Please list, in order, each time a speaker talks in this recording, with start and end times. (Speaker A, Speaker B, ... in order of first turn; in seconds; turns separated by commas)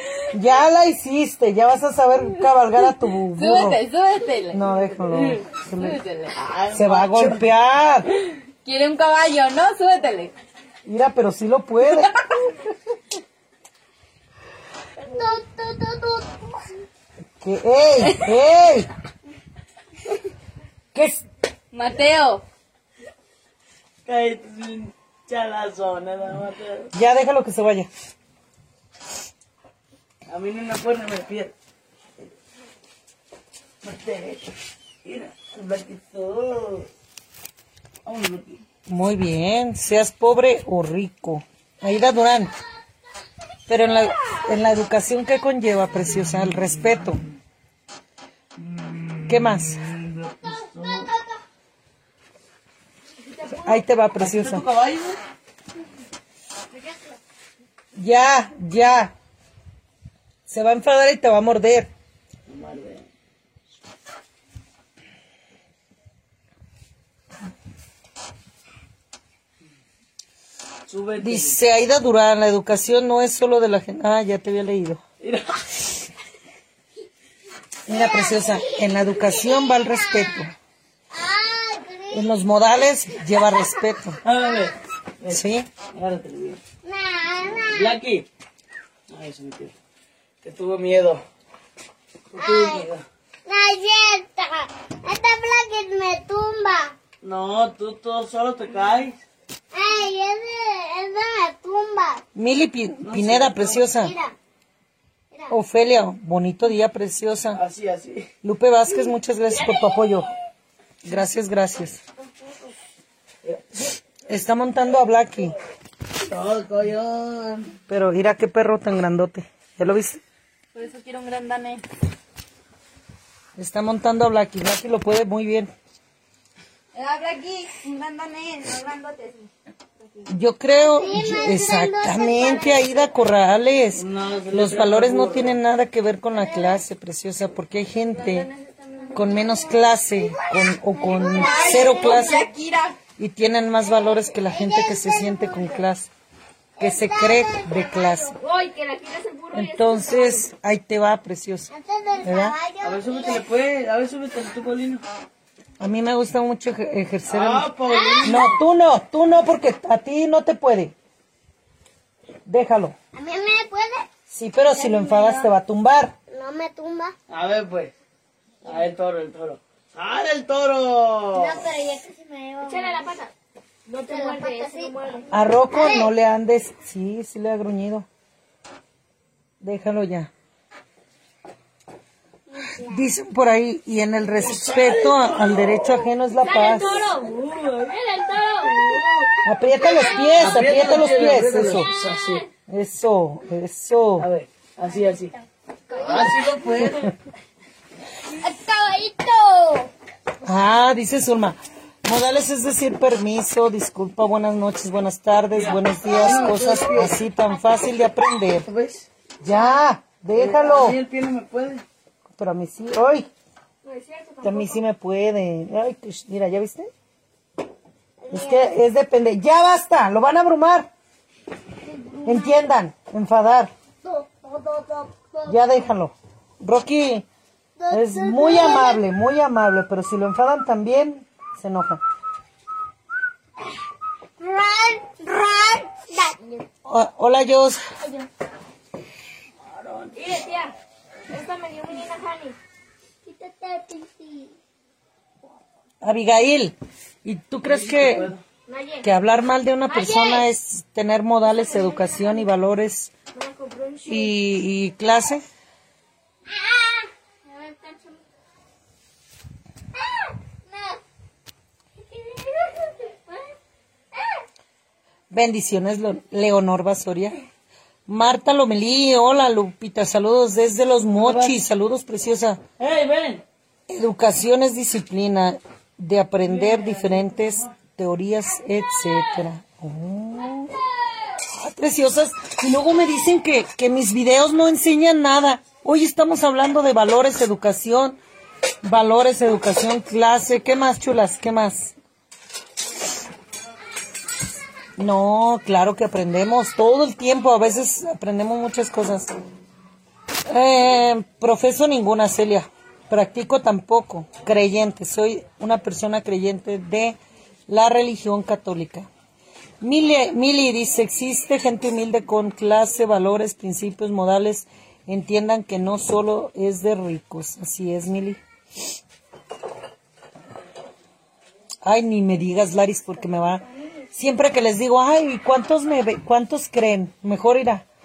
Speaker A: 0.3-3.8, Speaker B: 3.4-6.4, Speaker A: 4.5-6.0, Speaker C: 6.3-7.5, Speaker A: 6.7-8.1, Speaker B: 8.6-10.3, Speaker A: 10.9-12.1, Speaker D: 15.0-16.5, Speaker A: 17.4-18.9, Speaker B: 18.0-18.4, Speaker A: 20.9-21.2, Speaker B: 21.7-22.4, Speaker C: 24.1-26.9, Speaker A: 26.9-27.9, Speaker C: 30.3-31.5, Speaker C: 33.8-34.5, Speaker C: 35.0-36.9, Speaker C: 38.0-38.6, Speaker A: 38.9-42.5, Speaker A: 43.7-47.2, Speaker C: 48.6-51.1, Speaker A: 49.3-49.8, Speaker D: 50.8-51.4, Speaker B: 53.3-53.8, Speaker A: 53.5-54.7, Speaker C: 54.2-55.2, Speaker A: 58.0-59.1, Speaker A: 60.5-61.9, Speaker C: 62.5-63.0, Speaker C: 70.9-71.6, Speaker A: 71.2-75.0, Speaker C: 75.2-76.0, Speaker A: 77.9-80.5, Speaker D: 77.9-80.4, Speaker D: 81.1-82.3, Speaker A: 82.1-84.2, Speaker D: 83.4-83.8, Speaker C: 84.2-86.6, Speaker A: 85.3-85.7, Speaker D: 86.8-88.0, Speaker C: 87.6-88.3, Speaker C: 89.1-89.7, Speaker C: 90.4-91.2, Speaker C: 92.3-93.0, Speaker D: 92.4-92.9, Speaker D: 93.5-97.0, Speaker C: 97.2-99.2, Speaker D: 99.7-102.2, Speaker A: 102.3-104.1, Speaker C: 103.0-103.8, Speaker D: 103.9-104.3, Speaker A: 105.5-107.6, Speaker C: 107.5-108.3, Speaker A: 108.4-110.3, Speaker A: 111.0-112.0, Speaker C: 113.4-113.7, Speaker A: 114.3-115.5, Speaker C: 116.2-117.8, Speaker A: 117.9-120.2, Speaker B: 120.8-121.8, Speaker A: 123.6-125.7, Speaker E: 127.0-129.3, Speaker B: 127.0-128.7, Speaker A: 130.3-138.5, Speaker D: 130.7-133.1, Speaker C: 133.9-135.6, Speaker E: 138.6-139.2, Speaker A: 139.1-142.5, Speaker D: 139.3-141.9, Speaker E: 141.2-142.5, Speaker B: 141.2-143.0, Speaker A: 143.2-146.1, Speaker D: 144.2-145.8, Speaker D: 146.8-148.4, Speaker A: 146.8-148.4, Speaker E: 148.4-150.4, Speaker B: 148.5-149.6, Speaker A: 149.5-151.7, Speaker D: 151.7-153.5, Speaker A: 152.2-152.6, Speaker C: 152.8-155.0, Speaker A: 155.8-157.7, Speaker C: 157.3-158.6, Speaker D: 157.9-158.5, Speaker A: 158.2-160.9, Speaker A: 162.5-162.9, Speaker D: 163.2-164.1, Speaker A: 164.3-166.2, Speaker E: 164.8-165.1, Speaker D: 166.3-167.2, Speaker C: 167.3-167.9, Speaker C: 168.6-171.6, Speaker D: 171.3-173.2, Speaker E: 172.7-173.3, Speaker E: 173.9-175.2, Speaker D: 174.0-175.0, Speaker B: 174.1-174.7, Speaker A: 175.3-178.1, Speaker D: 175.7-176.1, Speaker A: 179.6-180.3, Speaker D: 182.5-183.1, Speaker A: 182.8-187.2, Speaker C: 184.4-186.1, Speaker D: 186.5-191.3, Speaker E: 186.8-187.3, Speaker C: 187.5-187.8, Speaker A: 189.4-191.9, Speaker C: 190.3-192.4, Speaker A: 192.7-194.3, Speaker C: 194.2-195.3, Speaker D: 195.9-196.5, Speaker C: 195.9-197.1, Speaker D: 198.4-199.9, Speaker A: 200.4-208.7, Speaker C: 205.5-207.1, Speaker C: 208.7-209.1, Speaker A: 209.4-211.0, Speaker C: 210.4-211.8, Speaker A: 212.3-213.3, Speaker E: 213.9-214.2, Speaker A: 214.4-216.9, Speaker D: 218.2-218.8, Speaker A: 218.3-220.9, Speaker D: 221.8-222.6, Speaker A: 222.2-223.7, Speaker D: 224.0-225.6, Speaker A: 225.5-227.3, Speaker D: 227.8-229.0, Speaker A: 227.9-232.0, Speaker D: 234.4-236.7, Speaker A: 236.8-237.8, Speaker C: 239.7-240.1, Speaker E: 240.2-240.7, Speaker E: 241.3-242.6, Speaker D: 243.2-244.6, Speaker A: 246.0-248.3, Speaker C: 247.7-248.4, Speaker E: 248.7-249.0, Speaker A: 249.0-253.1, Speaker E: 249.9-250.4, Speaker E: 253.3-254.2, Speaker A: 254.1-255.4, Speaker D: 256.5-257.1, Speaker E: 257.5-258.1, Speaker D: 260.7-261.0, Speaker D: 262.4-263.0, Speaker A: 265.3-267.4, Speaker A: 268.1-272.6, Speaker C: 271.2-271.6, Speaker C: 272.8-273.4, Speaker A: 273.9-280.7, Speaker C: 276.8-277.1, Speaker A: 281.6-288.2, Speaker A: 288.8-291.9, Speaker A: 295.0-299.3, Speaker A: 300.5-307.2, Speaker A: 307.7-309.1, Speaker A: 309.8-318.4, Speaker A: 321.8-327.9